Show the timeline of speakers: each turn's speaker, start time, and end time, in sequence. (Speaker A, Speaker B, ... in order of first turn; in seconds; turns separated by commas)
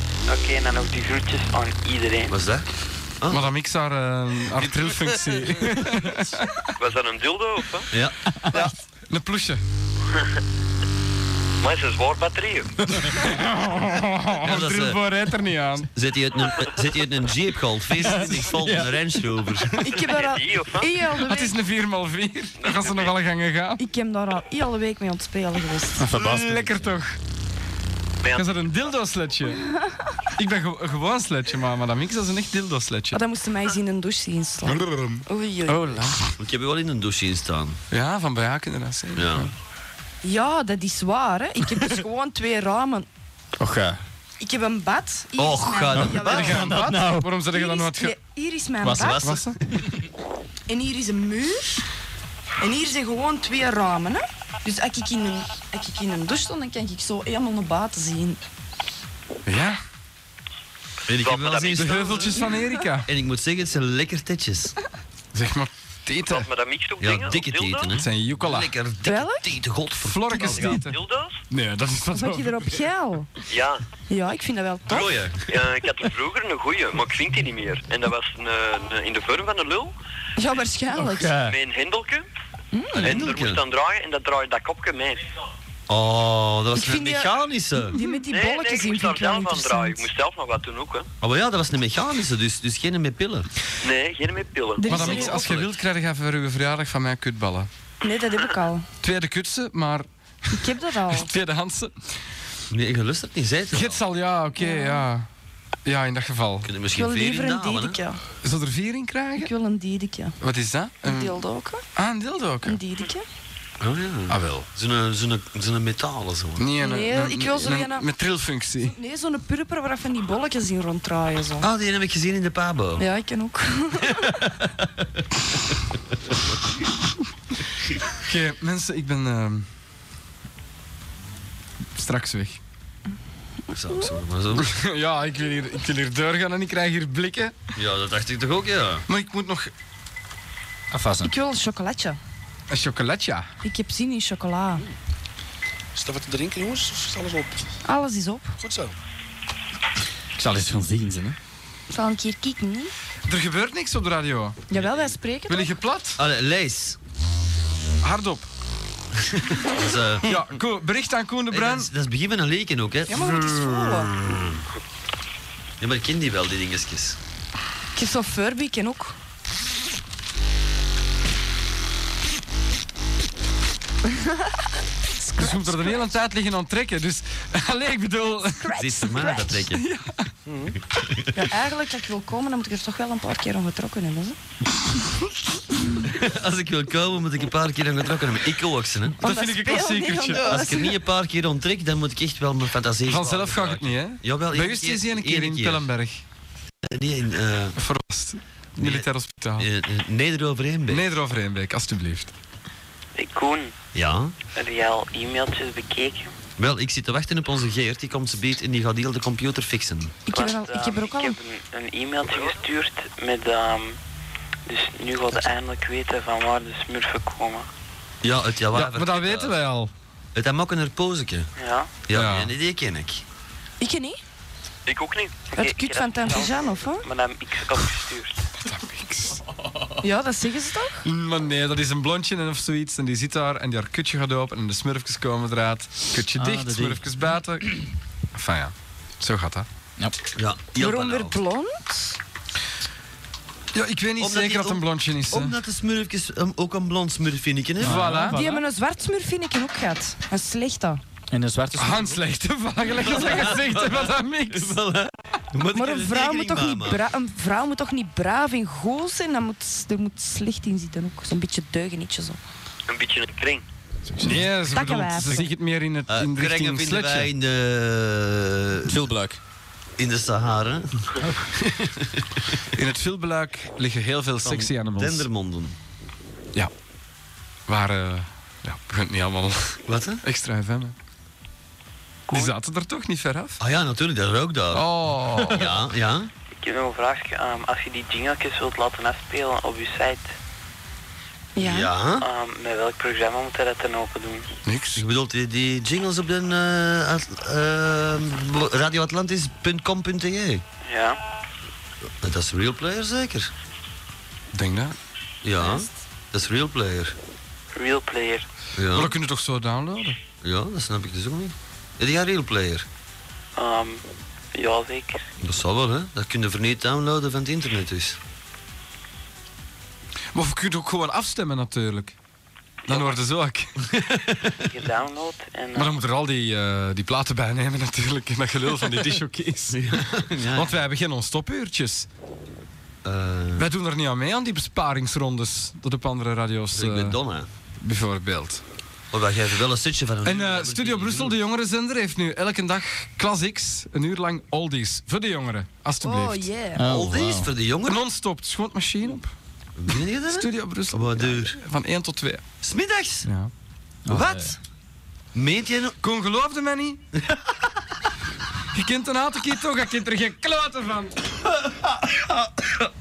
Speaker A: 0.3-2.4, Speaker B: 2.3-2.7, Speaker B: 3.2-3.5, Speaker C: 3.3-6.7, Speaker B: 4.6-5.0, Speaker D: 6.8-7.9, Speaker C: 8.5-9.6, Speaker D: 11.6-12.7, Speaker C: 13.1-15.9, Speaker B: 14.4-15.0, Speaker B: 15.9-19.7, Speaker E: 17.9-18.9, Speaker F: 19.7-21.5, Speaker D: 19.9-20.9, Speaker C: 21.1-23.8, Speaker D: 22.6-23.1, Speaker F: 23.8-26.0, Speaker E: 26.0-26.8, Speaker C: 26.2-27.1, Speaker D: 28.2-28.8, Speaker C: 28.3-29.6, Speaker C: 30.4-33.2, Speaker F: 33.1-35.9, Speaker C: 35.7-36.1, Speaker B: 36.4-37.8, Speaker C: 37.9-39.5, Speaker B: 39.1-39.5, Speaker F: 40.2-43.1, Speaker E: 43.6-44.0, Speaker F: 44.4-46.6, Speaker B: 45.4-46.7, Speaker E: 45.9-47.3, Speaker C: 46.3-48.2, Speaker F: 47.5-49.2, Speaker E: 48.8-49.1, Speaker B: 48.9-49.5, Speaker C: 49.2-49.6, Speaker F: 50.7-51.8, Speaker F: 52.6-58.4, Speaker C: 59.5-59.8, Speaker B: 61.1-62.3, Speaker D: 61.1-62.3, Speaker C: 61.7-63.1, Speaker F: 62.4-62.8, Speaker B: 63.1-64.7, Speaker C: 65.3-66.5, Speaker D: 66.2-67.9, Speaker B: 67.0-70.8, Speaker C: 67.9-68.7, Speaker F: 69.0-69.5, Speaker C: 70.0-71.0, Speaker D: 70.5-71.4, Speaker C: 71.5-72.5, Speaker F: 72.1-73.3, Speaker D: 73.5-73.8, Speaker F: 74.1-75.1, Speaker B: 74.9-75.4, Speaker D: 75.5-79.9, Speaker F: 80.4-81.3, Speaker E: 80.9-81.6, Speaker D: 81.4-82.3, Speaker F: 82.7-83.3, Speaker D: 83.0-85.2, Speaker B: 83.0-83.6, Speaker B: 85.9-88.0, Speaker F: 86.7-87.3, Speaker F: 87.9-90.0, Speaker D: 88.2-91.1, Speaker B: 91.2-93.5, Speaker D: 93.8-95.4, Speaker F: 94.8-95.6, Speaker C: 94.8-97.7, Speaker B: 95.4-95.6, Speaker F: 98.0-98.8, Speaker C: 99.0-101.9, Speaker F: 100.5-101.3, Speaker B: 102.7-104.0, Speaker C: 103.7-105.3, Speaker F: 104.6-105.1, Speaker C: 105.8-106.7, Speaker B: 106.6-108.0, Speaker F: 106.9-108.2, Speaker C: 108.4-109.5, Speaker F: 109.4-110.3, Speaker C: 110.4-111.4, Speaker F: 111.0-111.8, Speaker C: 111.9-112.8, Speaker F: 112.6-113.2, Speaker B: 113.8-116.7, Speaker C: 114.3-114.7, Speaker C: 116.6-118.9, Speaker F: 116.8-118.1, Speaker F: 118.8-121.7, Speaker B: 121.6-123.0, Speaker F: 123.0-124.3, Speaker B: 124.2-125.1, Speaker C: 128.2-129.7, Speaker C: 131.9-132.6, Speaker B: 133.7-134.7, Speaker C: 134.6-137.6, Speaker B: 137.8-139.0, Speaker C: 139.1-139.7, Speaker E: 140.9-141.3, Speaker F: 141.2-142.2, Speaker C: 142.7-143.5, Speaker F: 143.6-144.8, Speaker G: 145.9-147.7, Speaker F: 147.8-148.5, Speaker G: 148.6-148.9, Speaker E: 150.3-151.4, Speaker F: 151.9-152.9, Speaker C: 153.3-154.6, Speaker F: 154.7-155.8, Speaker C: 155.5-156.2, Speaker B: 156.2-157.0, Speaker C: 158.0-158.5, Speaker B: 159.2-160.4, Speaker C: 160.2-161.9, Speaker B: 161.5-164.6, Speaker F: 163.1-164.1, Speaker B: 165.8-167.2, Speaker F: 167.9-169.2, Speaker F: 174.1-174.4, Speaker F: 175.1-176.1, Speaker C: 175.4-178.7, Speaker F: 178.5-179.6, Speaker B: 178.8-179.8, Speaker C: 179.8-180.3, Speaker G: 180.4-180.7, Speaker B: 180.9-181.3, Speaker F: 181.3-184.4, Speaker B: 186.1-189.2, Speaker F: 189.2-190.9, Speaker C: 189.2-190.7, Speaker B: 190.4-195.8, Speaker C: 193.1-196.2, Speaker B: 196.8-197.8, Speaker C: 197.8-199.7, Speaker B: 198.8-199.1, Speaker B: 199.6-201.1, Speaker C: 200.9-202.3, Speaker A: 203.1-203.7, Speaker B: 203.9-204.3, Speaker A: 204.5-206.3, Speaker B: 206.6-210.2, Speaker F: 210.2-211.4, Speaker A: 210.3-214.0, Speaker A: 214.7-217.7, Speaker B: 218.2-219.6, Speaker C: 218.7-219.9, Speaker B: 220.3-221.5, Speaker A: 221.6-222.0, Speaker B: 222.1-223.2, Speaker C: 222.1-222.5, Speaker F: 223.8-224.2, Speaker D: 224.8-225.5, Speaker A: 225.5-228.4, Speaker F: 225.5-227.1, Speaker C: 228.6-229.4, Speaker F: 230.0-231.0, Speaker C: 231.0-237.8, Speaker E: 236.3-237.0, Speaker C: 238.3-239.7, Speaker B: 240.3-241.4, Speaker F: 240.8-242.2, Speaker C: 243.7-245.5, Speaker B: 244.2-248.3, Speaker E: 247.8-248.4, Speaker C: 247.8-248.5, Speaker F: 248.2-251.0, Speaker E: 251.3-252.2, Speaker C: 251.8-254.8, Speaker B: 253.0-257.0, Speaker F: 255.7-262.4, Speaker D: 262.9-263.6, Speaker C: 264.2-267.3, Speaker F: 264.6-265.5, Speaker B: 266.1-269.1, Speaker E: 268.9-269.4, Speaker B: 270.0-271.1, Speaker B: 271.7-272.2, Speaker C: 272.7-275.2, Speaker B: 274.4-275.8, Speaker C: 277.7-280.9, Speaker B: 279.9-280.2, Speaker A: 282.3-282.5, Speaker C: 282.3-283.6, Speaker B: 283.6-284.9, Speaker C: 284.7-285.7, Speaker B: 285.5-286.3, Speaker A: 286.5-290.3, Speaker F: 291.5-291.9, Speaker B: 291.6-292.2, Speaker A: 292.2-294.5, Speaker C: 294.6-295.0, Speaker B: 294.9-300.6, Speaker A: 300.8-301.2, Speaker B: 302.2-303.5, Speaker C: 304.5-304.9, Speaker B: 305.4-307.1, Speaker F: 305.6-305.9, Speaker A: 307.7-308.5, Speaker B: 308.7-309.1, Speaker C: 308.9-310.2, Speaker B: 310.4-312.9, Speaker A: 313.6-315.3, Speaker B: 315.4-318.2, Speaker C: 320.3-322.1, Speaker C: 322.9-323.7, Speaker A: 322.9-323.1, Speaker B: 323.9-324.5, Speaker A: 324.6-326.0, Speaker C: 325.7-329.8, Speaker B: 329.7-330.8, Speaker C: 330.5-332.1, Speaker B: 333.0-333.7, Speaker C: 333.6-337.2, Speaker B: 336.7-337.5, Speaker C: 337.8-338.6, Speaker B: 339.1-341.4, Speaker C: 340.2-346.5, Speaker F: 346.0-346.8, Speaker E: 346.8-347.5, Speaker B: 346.9-348.0, Speaker C: 347.9-349.3, Speaker B: 349.8-351.6, Speaker C: 350.3-352.4, Speaker B: 352.6-353.3, Speaker C: 353.2-353.5, Speaker E: 354.1-354.5, Speaker B: 354.1-354.6, Speaker B: 355.3-355.9, Speaker C: 356.0-357.0, Speaker B: 357.2-357.5, Speaker C: 358.7-361.1, Speaker B: 361.7-362.9